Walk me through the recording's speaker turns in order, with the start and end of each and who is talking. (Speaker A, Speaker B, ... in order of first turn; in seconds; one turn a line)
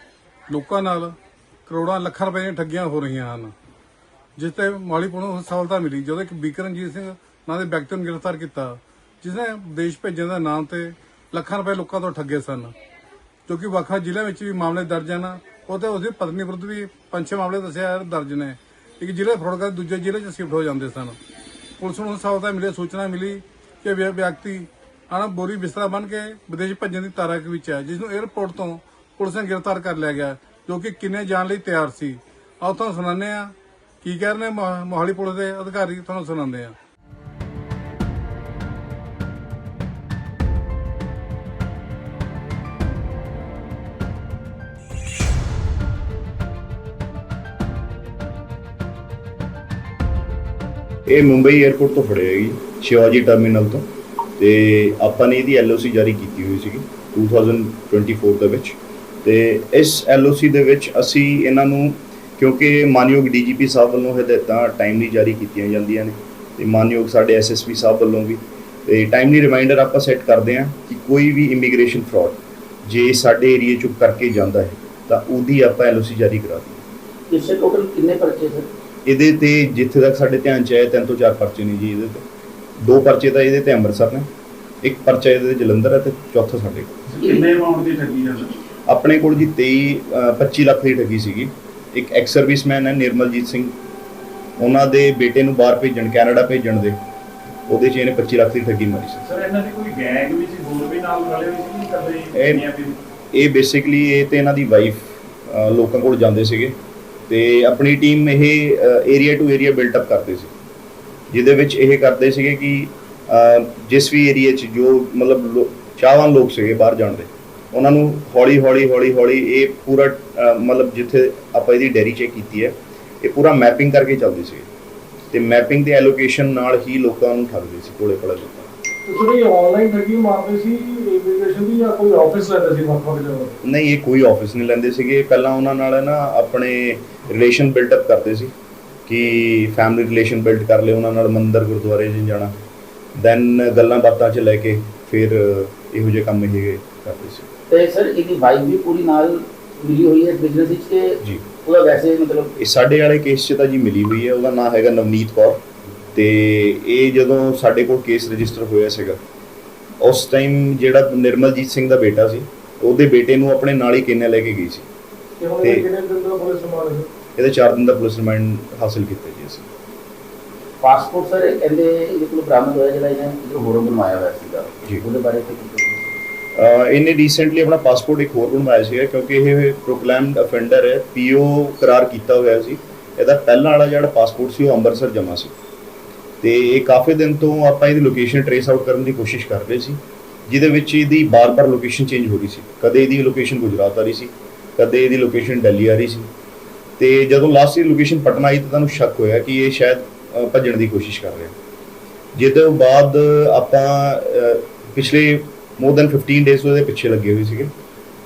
Speaker A: 0.5-1.1
Speaker A: 1.6-3.5
Speaker A: 4.4-12.7
Speaker A: 13.5-21.2
Speaker A: 21.8-36.7
Speaker B: 51.0-53.8
Speaker B: 54.4-76.8
Speaker C: 77.3-78.7
Speaker B: 79.0-82.2
Speaker B: 82.8-84.3
Speaker B: 84.8-86.9
Speaker D: 87.1-88.6
Speaker C: 87.2-87.5
Speaker B: 88.9-93.7
Speaker B: 94.6-97.0
Speaker B: 97.7-99.2
Speaker D: 99.2-103.0
Speaker B: 102.3-102.7
Speaker B: 103.3-106.8
Speaker B: 107.3-110.5
Speaker B: 111.3-124.7
Speaker B: 125.3-128.7
Speaker E: 129.1-133.5
Speaker B: 133.6-138.5
Speaker B: 139.1-142.5
Speaker B: 143.2-147.4
Speaker C: 147.7-152.5
Speaker B: 152.6-155.6
Speaker B: 156.1-159.2
Speaker B: 160.0-164.8
Speaker E: 165.4-167.1
Speaker B: 165.6-165.9
Speaker B: 167.4-169.7
Speaker C: 170.8-176.1
Speaker B: 176.5-185.5
Speaker B: 186.4-196.3
Speaker B: 197.0-201.5
Speaker B: 202.3-207.7